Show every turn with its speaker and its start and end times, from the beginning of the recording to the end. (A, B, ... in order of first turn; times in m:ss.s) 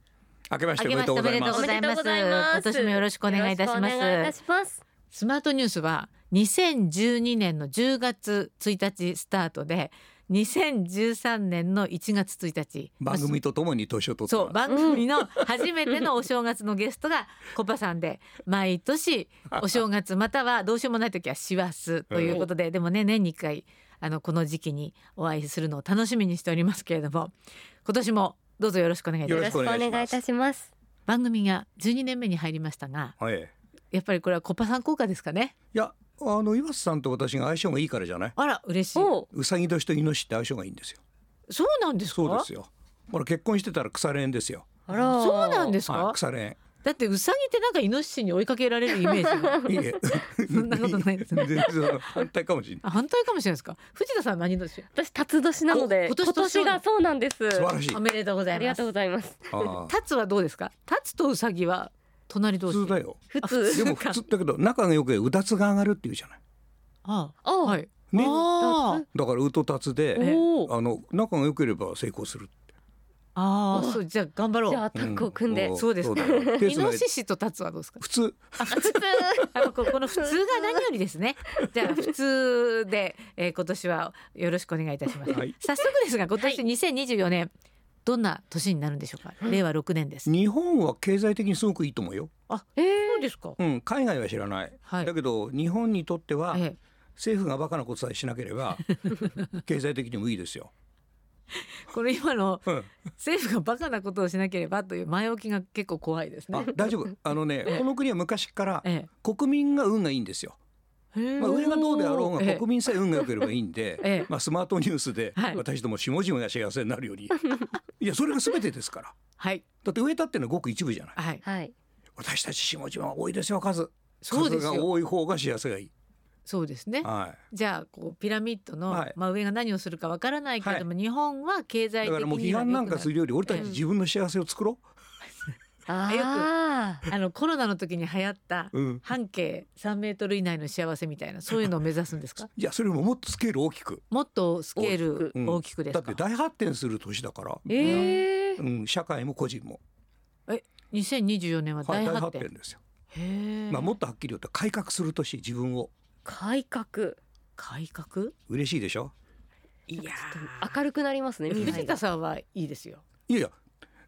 0:00.5-0:01.7 A
0:00.8-0:04.3 B
0:01.5-0:04.8 C
0:05.1-0:13.3 B
0:13.0-0:15.6 A
0:14.3-0:29.6 B
0:14.7-0:15.0 C
0:19.5-0:19.8 A
0:22.1-0:22.4 A
0:29.2-0:30.2 A
0:29.3-0:30.7 C
0:31.1-0:33.2 B
0:33.2-0:33.5 A
0:33.9-0:35.5 B
0:35.7-0:38.4 A
0:38.4-0:39.1 B
0:39.0-0:39.3 C
0:39.3-0:41.0 A
0:41.5-0:42.5 B
0:42.1-0:44.8 A
0:44.9-0:45.8 C
0:44.9-0:46.2 B
0:45.9-0:46.6 A
0:46.8-0:49.6 B
0:49.0-0:49.8 C
0:49.6-0:52.8 A
0:50.5-0:52.1 B
0:52.8-0:54.9 B
0:54.9-0:57.7 C
0:55.7-0:56.8 B
0:57.5-0:58.0 A
0:57.9-0:58.8 B
0:58.5-0:59.7 C
0:59.5-0:59.9 A
0:59.9-1:04.2 B
1:02.6-1:06.4 A
1:03.3-1:03.9 C
1:07.0-1:09.0 B
1:07.4-1:09.1 C
1:08.1-1:08.4 A
1:09.1-1:12.5 A
1:10.2-1:10.7 C
1:10.2-1:10.4 B
1:13.4-1:14.8 B
1:13.7-1:14.0 C
1:14.7-1:16.6 C
1:14.9-1:17.0 A
1:15.7-1:18.0 B
1:18.0-1:19.0 A
1:18.6-1:27.5 B
1:18.7-1:19.5 C
1:20.1-1:20.7 C
1:25.3-1:25.6 A
1:28.0-1:30.3 B
1:30.2-1:32.3 A
1:32.5-1:33.6 B
1:32.8-1:33.3 C
1:33.6-1:36.6 A
1:34.8-1:35.1 B
1:36.5-1:36.8 B
1:37.2-1:40.7 A
1:41.5-1:46.7 B
1:46.5-1:50.6 A
1:48.8-1:49.1 B
1:51.1-1:52.6 B
1:51.4-1:59.2 A
1:54.0-1:54.3 B
1:55.4-1:55.6 B
1:59.4-1:59.6 B
1:59.8-2:01.2 A
2:01.2-2:01.4 B
2:01.4-2:01.7 C
2:02.2-2:05.9 A
2:04.2-2:04.9 B
2:06.4-2:13.7 B
2:07.0-2:07.4 A
2:08.9-2:09.2 A
2:10.6-2:10.8 A
2:12.0-2:14.8 A
2:13.5-2:13.8 C
2:15.9-2:17.0 C
2:16.1-2:16.5 B
2:17.0-2:22.5 B
2:18.7-2:19.0 A
2:22.5-2:24.0 A
2:24.1-2:26.2 B
2:24.8-2:25.3 C
2:25.3-2:29.8 A
2:27.7-2:28.6 C
2:27.8-2:28.2 B
2:30.5-2:32.5 B
2:31.8-2:32.8 A
2:33.1-2:33.9 B
2:33.7-2:35.9 A
2:36.2-2:37.2 C
2:37.6-2:38.3 B
2:38.5-2:39.1 A
2:39.9-2:40.8 B
2:40.0-2:42.0 C
2:41.5-2:43.0 B
2:41.6-2:41.9 A
2:43.3-2:43.6 A